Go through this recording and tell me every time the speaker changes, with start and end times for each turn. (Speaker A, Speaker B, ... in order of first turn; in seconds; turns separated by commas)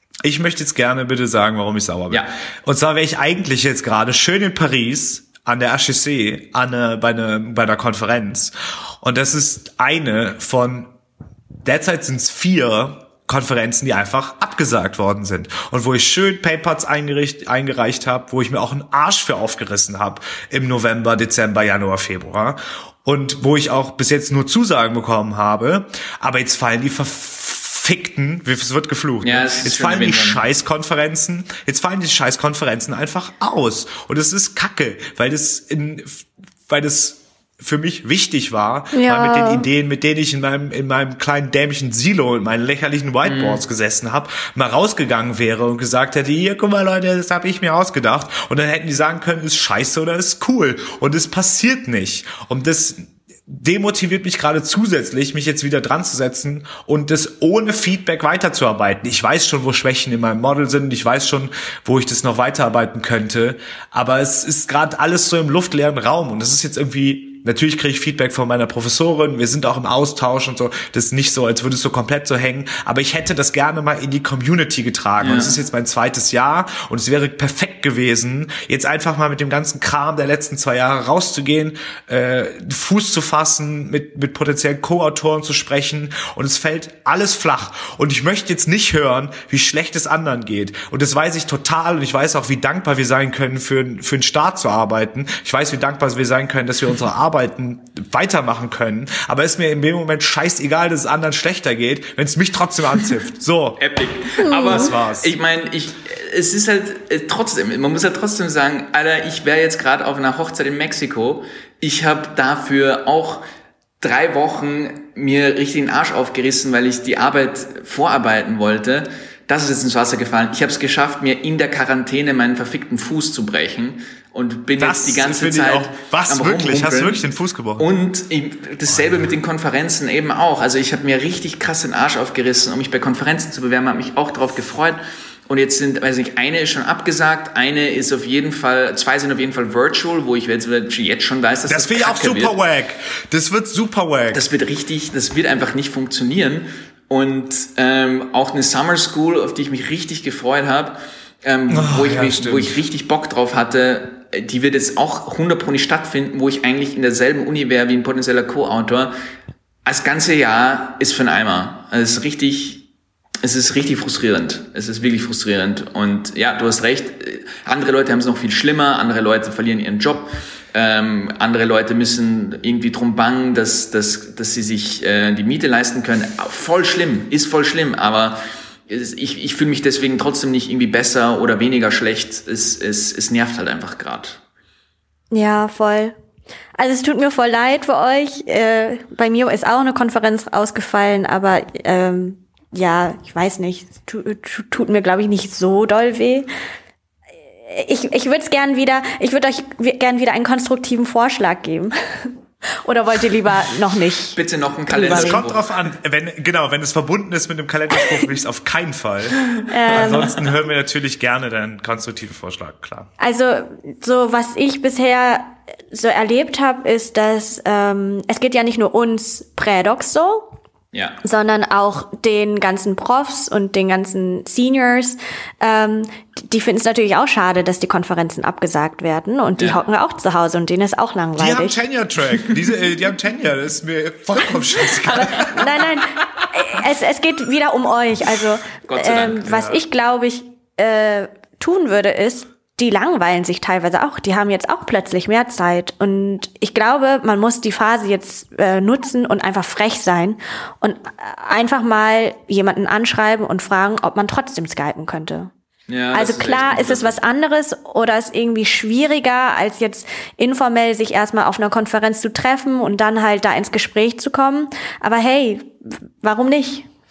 Speaker A: 0.2-10.9, Speaker A: 11.6-103.8, Speaker B: 29.2-30.4, Speaker C: 38.9-39.6, Speaker B: 43.2-43.6, Speaker B: 75.2-75.5, Speaker B: 103.8-113.4, Speaker C: 104.4-104.9, Speaker A: 104.5-105.3, Speaker B: 114.0-127.2, Speaker A: 124.8-127.9, Speaker B: 127.8-142.5, Speaker A: 141.7-144.4, Speaker B: 144.3-159.1, Speaker A: 151.7-152.8, Speaker B: 159.8-162.8, Speaker B: 163.4-184.4, Speaker C: 185.3-186.1, Speaker C: 186.8-196.5, Speaker C: 197.6-205.4, Speaker B: 204.3-205.7, Speaker A: 205.0-213.1, Speaker C: 209.7-210.4, Speaker C: 213.2-220.6, Speaker B: 220.9-221.2, Speaker C: 221.2-231.8, Speaker A: 231.4-236.5, Speaker C: 234.8-255.5, Speaker B: 238.8-239.7, Speaker A: 239.4-239.8, Speaker B: 255.9-257.1, Speaker C: 256.1-266.9